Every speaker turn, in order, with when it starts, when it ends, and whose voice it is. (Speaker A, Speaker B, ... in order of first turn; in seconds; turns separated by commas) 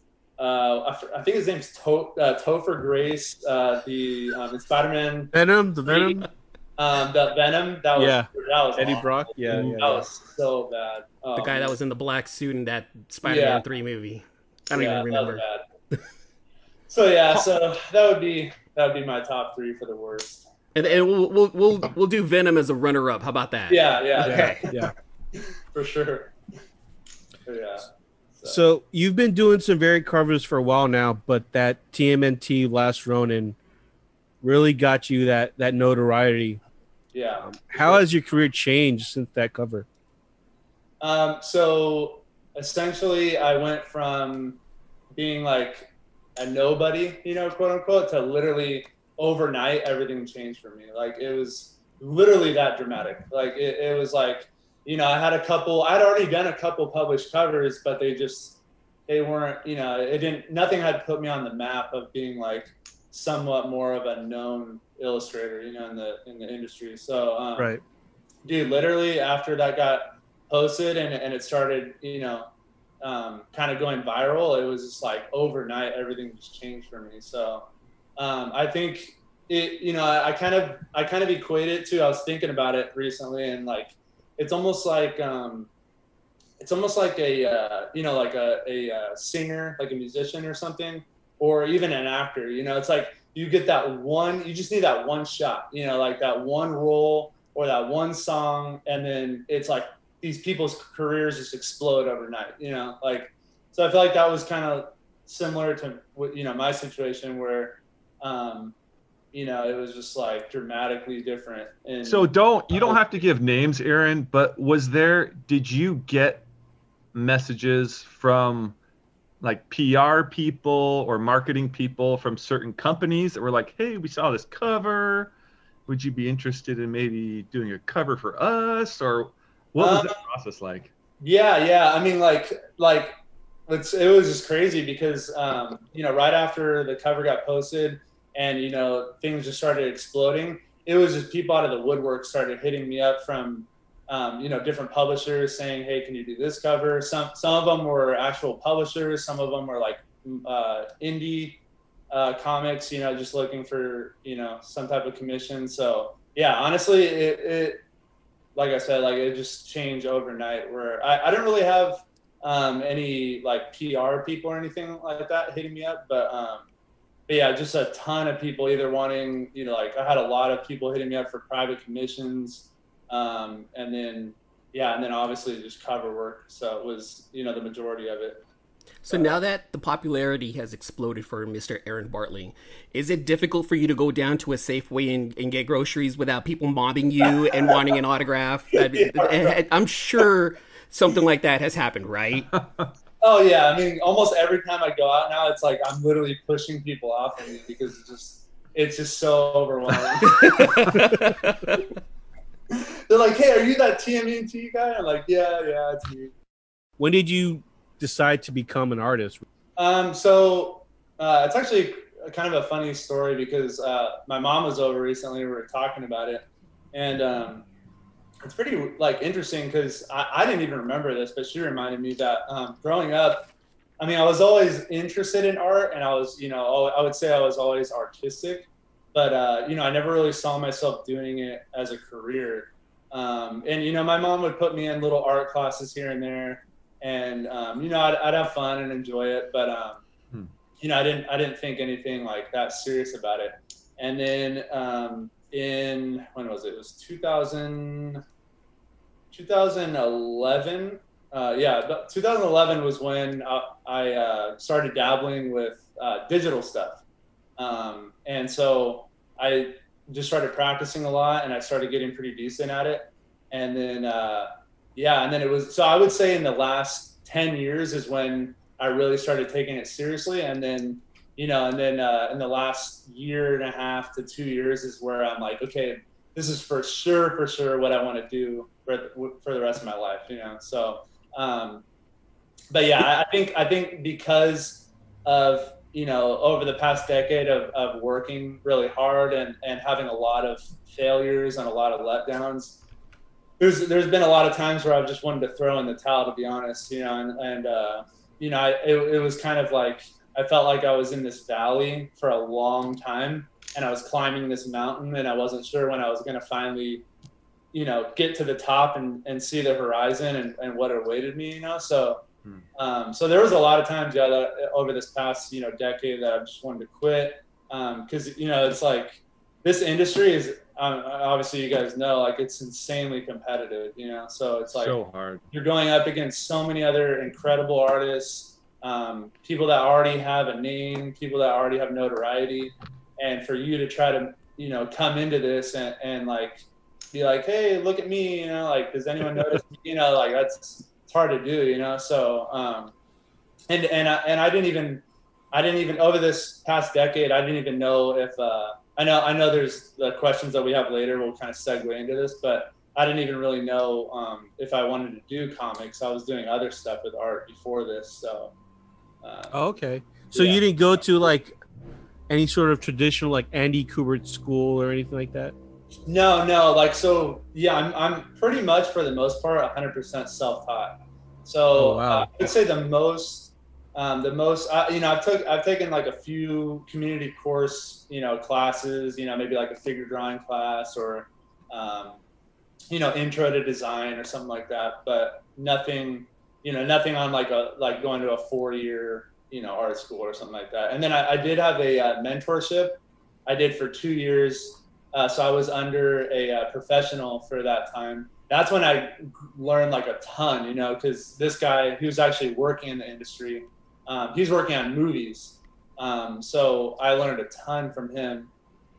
Speaker A: 0.4-5.3, Speaker B: 5.3-6.3, Speaker A: 5.8-6.2, Speaker A: 6.8-11.8, Speaker B: 8.0-10.1, Speaker C: 11.3-16.0, Speaker A: 13.2-13.6, Speaker A: 14.7-15.6, Speaker A: 16.9-20.9, Speaker C: 20.7-24.8, Speaker A: 23.7-24.7, Speaker B: 24.2-24.9, Speaker A: 25.4-26.3, Speaker A: 27.4-28.6, Speaker B: 28.5-33.6, Speaker B: 34.4-36.6, Speaker A: 37.1-38.0, Speaker B: 37.4-39.9, Speaker A: 41.0-44.6, Speaker A: 45.1-67.7, Speaker B: 67.6-67.8, Speaker A: 68.4-72.5, Speaker A: 73.0-77.6, Speaker A: 78.2-85.7, Speaker A: 86.6-108.7, Speaker A: 109.3-113.0, Speaker D: 112.0-116.5, Speaker D: 117.1-118.8, Speaker D: 119.4-125.3, Speaker D: 125.9-130.9, Speaker A: 129.8-130.2, Speaker A: 131.2-133.1, Speaker A: 133.7-151.6, Speaker A: 152.1-157.8, Speaker A: 158.6-166.7, Speaker A: 167.3-178.4, Speaker C: 179.0-192.5, Speaker A: 179.1-179.3, Speaker A: 188.8-189.6, Speaker A: 193.2-200.9, Speaker C: 200.3-201.8, Speaker A: 202.7-206.3, Speaker B: 207.0-209.4, Speaker A: 209.8-217.6, Speaker A: 218.4-240.0, Speaker A: 240.8-248.2, Speaker A: 249.3-257.0, Speaker A: 257.6-281.8, Speaker A: 282.7-292.8, Speaker A: 293.6-307.0, Speaker A: 307.7-312.2, Speaker A: 312.8-325.0, Speaker D: 324.7-325.4, Speaker A: 325.5-342.9, Speaker A: 343.7-358.5, Speaker A: 359.2-359.6, Speaker B: 359.5-361.6, Speaker A: 360.3-361.2, Speaker B: 362.3-365.5, Speaker A: 366.1-382.2, Speaker B: 371.8-372.3, Speaker A: 382.9-408.5